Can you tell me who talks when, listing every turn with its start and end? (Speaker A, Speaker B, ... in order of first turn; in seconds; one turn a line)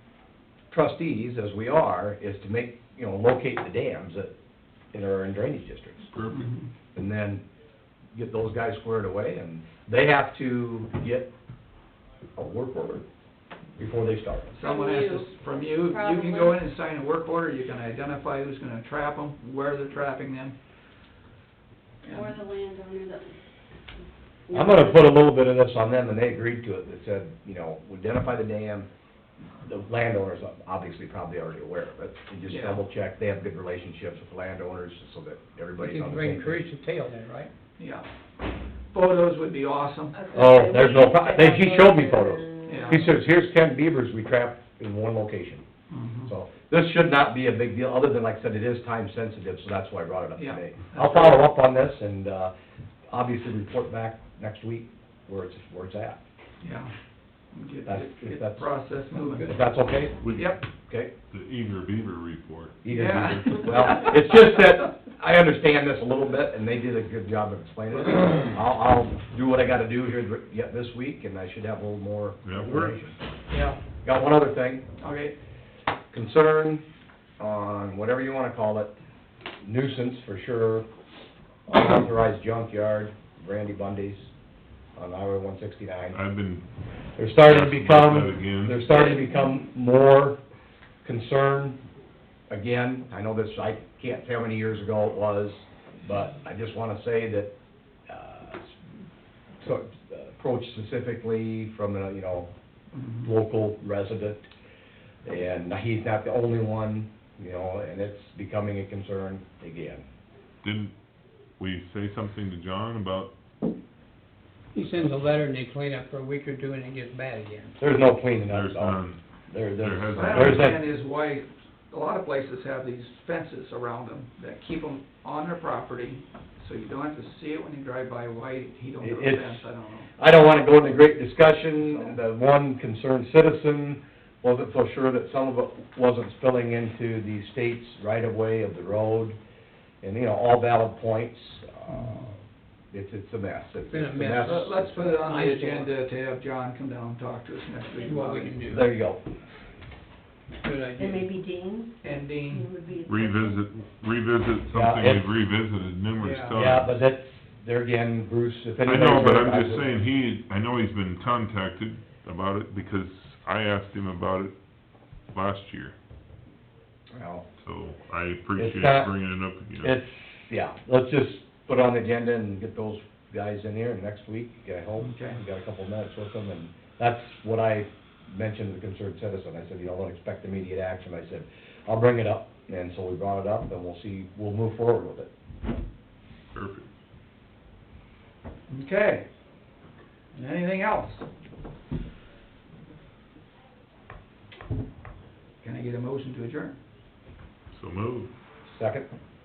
Speaker A: 0.7-4.3
Speaker A: 4.9-6.1
Speaker B: 6.1-6.5
Speaker C: 6.3-6.7
Speaker A: 7.0-7.4
Speaker A: 8.1-11.3
Speaker A: 12.4-13.1
Speaker A: 13.8-14.5
Speaker C: 14.5-20.6
Speaker D: 14.6-15.3
Speaker D: 15.8-16.6
Speaker C: 22.0-22.4
Speaker D: 22.1-23.3
Speaker D: 24.5-25.1
Speaker A: 24.5-28.9
Speaker A: 29.6-36.6
Speaker C: 32.5-32.8
Speaker E: 35.8-37.5
Speaker C: 37.8-38.1
Speaker C: 38.9-40.2
Speaker D: 40.1-43.1
Speaker A: 40.3-45.6
Speaker C: 42.7-43.1
Speaker C: 45.9-46.3
Speaker A: 46.3-52.5
Speaker C: 50.4-51.5
Speaker A: 53.1-56.2
Speaker C: 56.6-56.9
Speaker C: 57.5-59.5
Speaker A: 57.9-58.7
Speaker A: 59.4-60.2
Speaker B: 60.2-60.6
Speaker C: 60.3-60.6
Speaker B: 61.3-63.5
Speaker A: 62.8-73.2
Speaker C: 62.9-64.4
Speaker B: 72.4-73.0
Speaker A: 73.8-74.8
Speaker C: 75.0-75.4
Speaker A: 76.1-76.8
Speaker A: 77.4-78.9
Speaker A: 79.6-80.9
Speaker A: 81.7-84.3
Speaker A: 85.0-86.2
Speaker B: 86.1-86.7
Speaker A: 87.2-90.4
Speaker B: 87.4-88.8
Speaker D: 88.9-89.2
Speaker A: 91.0-91.8
Speaker A: 92.5-97.5
Speaker A: 98.1-98.7
Speaker A: 99.6-102.5
Speaker C: 102.9-103.3
Speaker A: 103.2-104.5
Speaker A: 105.2-110.0
Speaker B: 110.6-110.9
Speaker B: 111.6-113.3
Speaker E: 114.7-117.8
Speaker A: 117.8-120.8
Speaker B: 118.5-119.2
Speaker B: 119.8-120.8
Speaker C: 120.1-130.1
Speaker A: 129.0-129.6
Speaker A: 130.2-139.4
Speaker C: 131.8-132.2
Speaker A: 140.0-142.4
Speaker A: 142.9-144.9
Speaker E: 143.8-145.9
Speaker C: 144.4-148.8
Speaker E: 148.0-148.9
Speaker A: 148.7-149.2
Speaker E: 150.6-151.3
Speaker D: 151.0-153.6
Speaker C: 152.0-152.7
Speaker B: 153.1-156.9
Speaker A: 154.7-155.3
Speaker E: 156.2-156.5
Speaker A: 156.5-159.9
Speaker B: 158.8-164.5
Speaker B: 165.3-165.9
Speaker A: 167.1-167.4
Speaker B: 167.6-169.9
Speaker A: 168.6-169.1
Speaker A: 169.8-185.3
Speaker C: 175.0-175.4
Speaker B: 186.5-186.9
Speaker C: 188.7-189.3
Speaker C: 190.3-191.2
Speaker C: 195.6-196.8
Speaker B: 197.7-198.3
Speaker A: 198.7-199.1